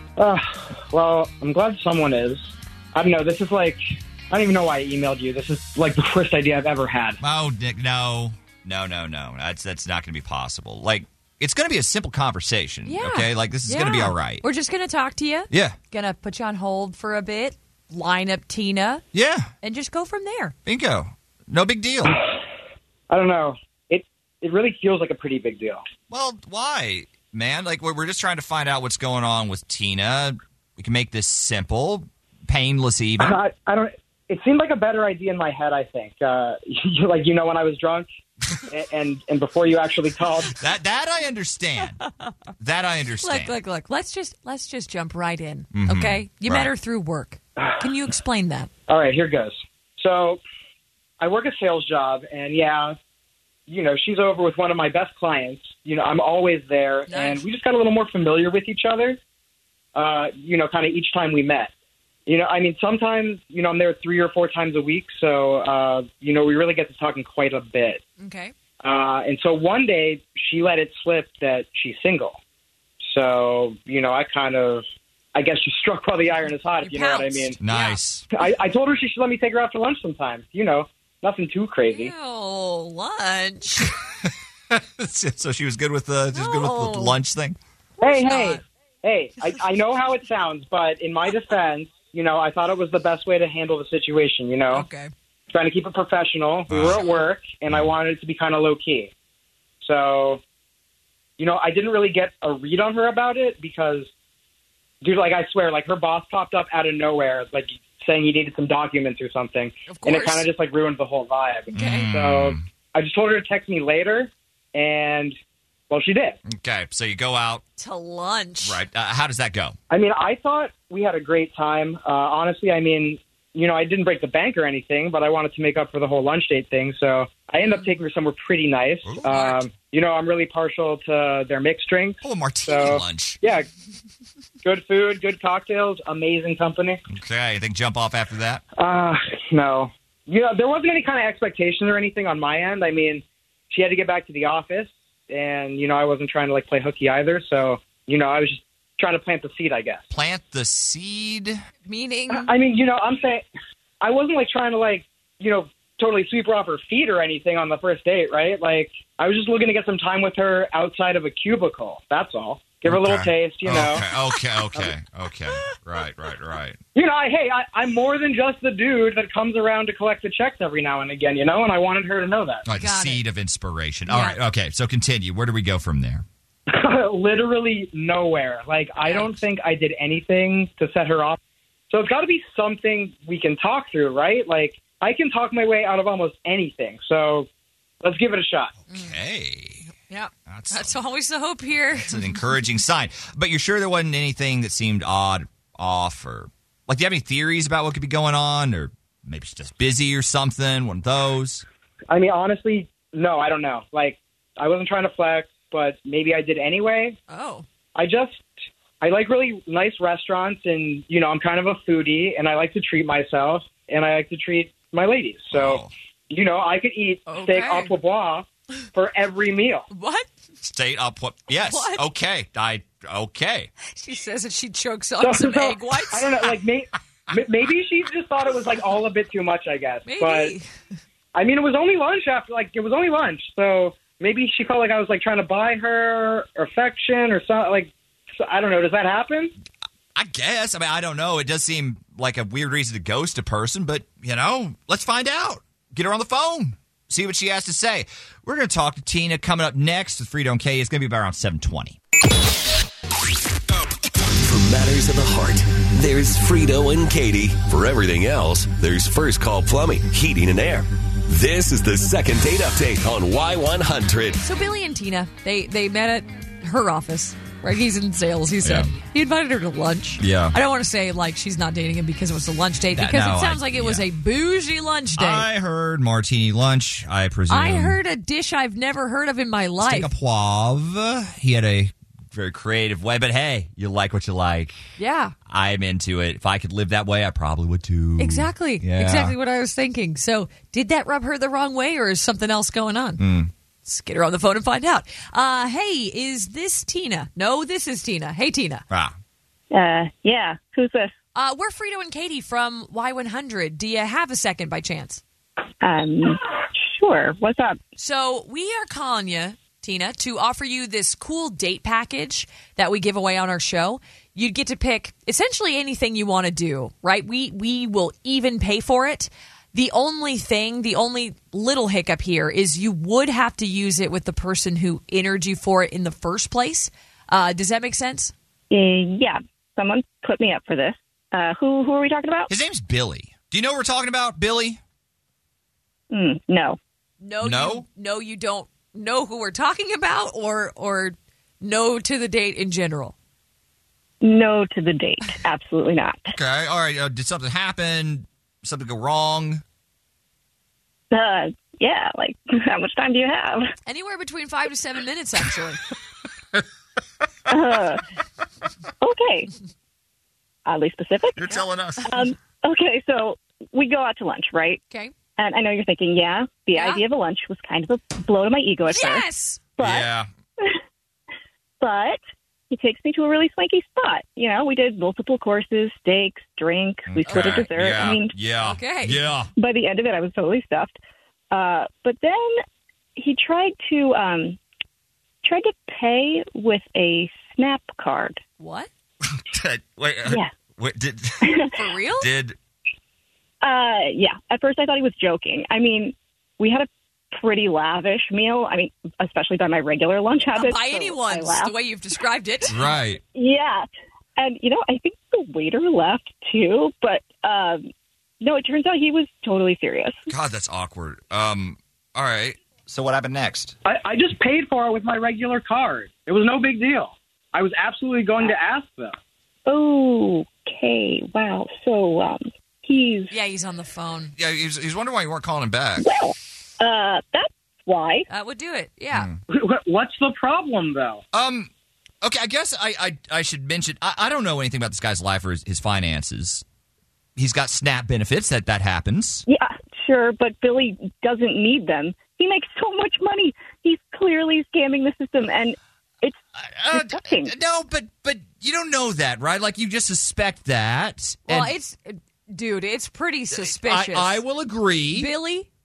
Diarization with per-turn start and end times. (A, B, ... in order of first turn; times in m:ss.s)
0:00.2-0:07.2 A
0:07.2-0:14.4 B
0:12.9-0:19.0 C
0:15.5-0:15.8 B
0:19.1-0:19.5 B
0:19.6-0:20.6 C
0:20.7-0:22.1 B
0:22.1-0:22.4 A
0:23.1-0:25.8 A
0:26.1-0:33.3 B
0:33.2-0:38.1 A
0:38.7-0:40.5 A
0:40.6-0:42.0 B
0:42.0-0:42.3 C
0:42.6-0:43.6 B
0:43.2-0:48.7 C
0:45.7-0:46.7 B
0:47.6-0:47.9 A
0:48.9-0:50.4 A
0:51.2-0:53.0 A
0:53.7-0:59.2 A
0:57.1-0:57.5 C
0:59.9-1:01.7 A
1:02.2-1:08.0 A
1:08.2-1:08.5 C
1:08.8-1:12.4 A
1:13.0-1:17.5 A
1:16.8-1:18.0 C
1:17.6-1:18.2 B
1:18.3-1:22.1 A
1:21.9-1:23.9 C
1:24.7-1:27.6 B
1:26.3-1:27.2 C
1:28.0-1:28.6 C
1:28.0-1:34.8 A
1:34.7-1:35.1 C
1:35.5-1:39.1 A
1:36.7-1:37.0 B
1:39.8-1:40.4 A
1:41.4-1:44.1 A
1:45.0-1:55.4 A
1:49.9-1:50.5 C
1:51.7-1:52.6 B
1:51.7-1:52.1 C
1:55.9-1:56.4 A
1:56.5-1:57.6 B
1:57.8-1:58.8 C
1:58.6-1:59.8 B
1:59.9-2:13.7 A
2:09.0-2:09.6 B
2:12.2-2:13.4 B
2:14.6-2:17.0 A
2:17.1-2:18.6 B
2:18.8-2:30.1 A
2:30.1-2:31.6 B
2:31.8-2:32.5 C
2:32.3-2:33.5 A
2:34.0-2:44.0 A
2:42.9-2:46.8 B
2:46.9-2:52.6 A
2:52.6-2:56.2 B
2:52.7-2:53.2 C
2:54.1-2:54.4 C
2:56.7-3:01.4 A
2:59.0-2:59.4 C
3:01.9-3:07.5 A
3:08.0-3:08.7 A
3:08.9-3:09.2 C
3:08.9-3:09.9 B
3:10.1-3:12.3 C
3:10.5-3:11.0 B
3:11.9-3:21.7 B
3:22.1-3:27.2 A
3:27.3-3:27.7 C
3:27.9-3:39.9 A
3:35.5-3:35.9 B
3:37.2-3:37.9 C
3:39.9-3:40.3 C
3:40.6-3:43.7 B
3:41.5-3:42.0 C
3:43.9-3:46.3 C
3:45.2-3:50.6 A
3:50.0-3:50.7 C
3:51.3-3:59.5 A
4:00.1-4:12.0 B
4:14.2-4:24.4 D
4:24.4-4:35.5 C
4:28.6-4:28.9 B
4:30.2-4:30.6 B
4:32.9-4:34.1 B
4:35.2-4:38.0 B
4:37.5-4:40.1 C
4:39.8-4:44.8 B
4:45.0-4:45.4 C
4:45.5-4:49.4 B
4:48.2-4:53.2 C
4:53.2-4:53.5 B
4:53.8-4:58.8 C
4:59.7-5:01.1 E
5:01.4-5:05.2 C
5:05.8-5:07.8 E
5:08.0-5:28.3 C
5:28.7-5:32.5 E
5:32.5-5:34.8 B
5:36.1-5:36.8 E
5:37.2-5:43.1 C
5:37.4-5:37.8 B
5:44.2-5:46.3 E
5:46.3-5:49.6 B
5:51.1-5:53.6 E
5:53.9-5:55.8 C
5:57.5-5:58.0 E
5:59.0-5:59.5 E
6:00.7-6:04.8 E
6:01.4-6:02.2 B
6:05.4-6:09.3 E
6:06.8-6:07.0 C
6:08.9-6:09.6 C
6:09.8-6:10.8 E
6:09.8-6:10.3 B
6:11.8-6:12.2 E
6:12.7-6:18.4 E
6:17.1-6:19.5 B
6:17.3-6:17.6 C
6:18.6-6:19.2 C
6:19.6-6:21.0 E
6:21.5-6:22.6 E
6:23.2-6:24.6 E
6:25.4-6:28.4 E
6:28.6-6:28.9 C
6:29.3-6:31.7 B
6:31.4-6:31.7 E
6:31.7-6:32.3 C
6:32.2-6:32.6 B
6:33.6-6:41.8 E
6:40.5-6:42.8 C
6:42.7-6:43.2 B
6:43.3-6:43.8 E
6:44.4-6:47.8 E
6:48.4-6:50.3 E
6:50.3-6:53.8 B
6:53.9-6:59.2 A
6:59.7-7:03.4 E
7:03.3-7:04.3 C
7:04.4-7:06.1 B
7:06.0-7:08.3 E
7:08.3-7:09.3 C
7:09.1-7:09.4 B
7:09.5-7:11.2 A
7:11.3-7:11.7 B
7:12.2-7:16.6 B
7:17.4-7:19.4 B
7:19.5-7:26.4 E
7:26.8-7:31.7 B
7:26.9-7:27.5 E
7:31.4-7:34.4 C
7:33.5-7:35.3 B
7:35.1-7:35.7 C